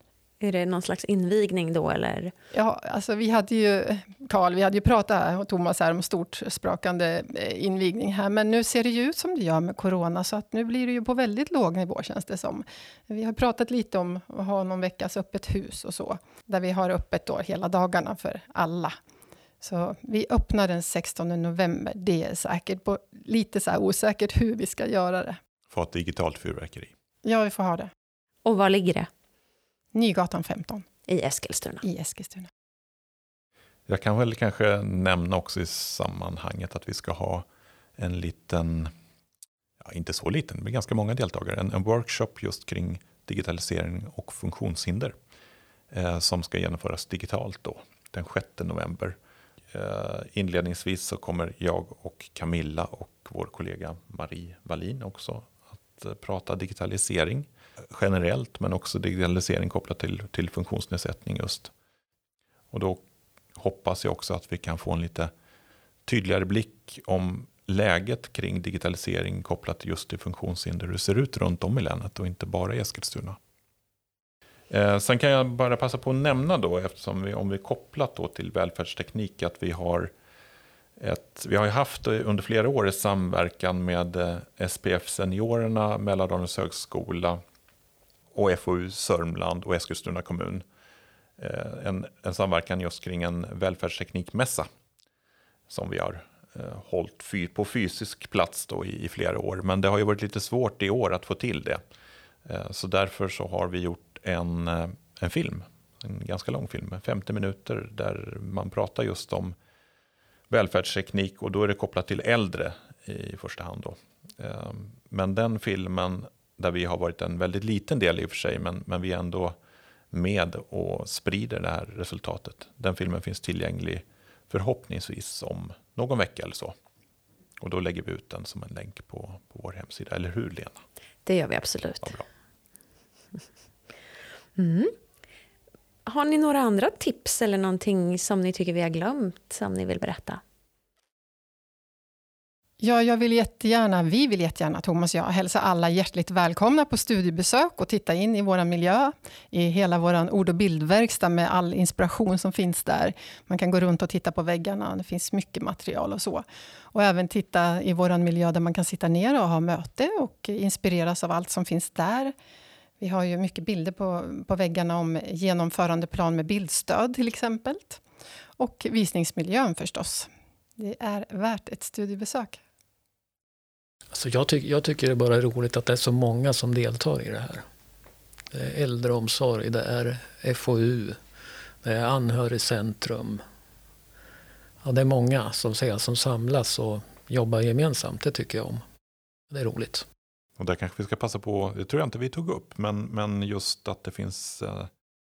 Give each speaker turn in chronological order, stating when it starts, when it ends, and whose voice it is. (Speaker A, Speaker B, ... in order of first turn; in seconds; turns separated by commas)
Speaker A: 0.4-2.3, Speaker B: 2.5-19.0, Speaker B: 19.6-25.4, Speaker C: 25.7-26.9, Speaker B: 27.2-27.9, Speaker A: 28.4-29.1, Speaker B: 29.9-30.9, Speaker A: 31.1-31.8, Speaker B: 31.8-32.5, Speaker C: 33.9-37.5, Speaker C: 38.0-38.9, Speaker C: 39.8-45.1, Speaker C: 45.9-49.2, Speaker C: 49.7-61.7, Speaker C: 62.7-65.3, Speaker C: 66.1-73.4, Speaker C: 74.7-80.1, Speaker C: 81.0-87.4, Speaker C: 88.3-90.7, Speaker C: 91.4-94.7, Speaker C: 95.7-101.8, Speaker C: 102.5-109.5, Speaker C: 110.5-119.6, Speaker C: 120.1-126.8, Speaker C: 127.6-130.8, Speaker A: 131.3-132.2, Speaker A: 134.6-134.9, Speaker A: 136.1-140.4, Speaker B: 142.8-162.3, Speaker B: 163.0-168.0, Speaker B: 168.6-172.6, Speaker D: 174.1-177.7, Speaker D: 178.5-181.2, Speaker D: 181.8-183.4, Speaker D: 184.8-188.8, Speaker D: 189.5-190.1, Speaker C: 190.6-194.9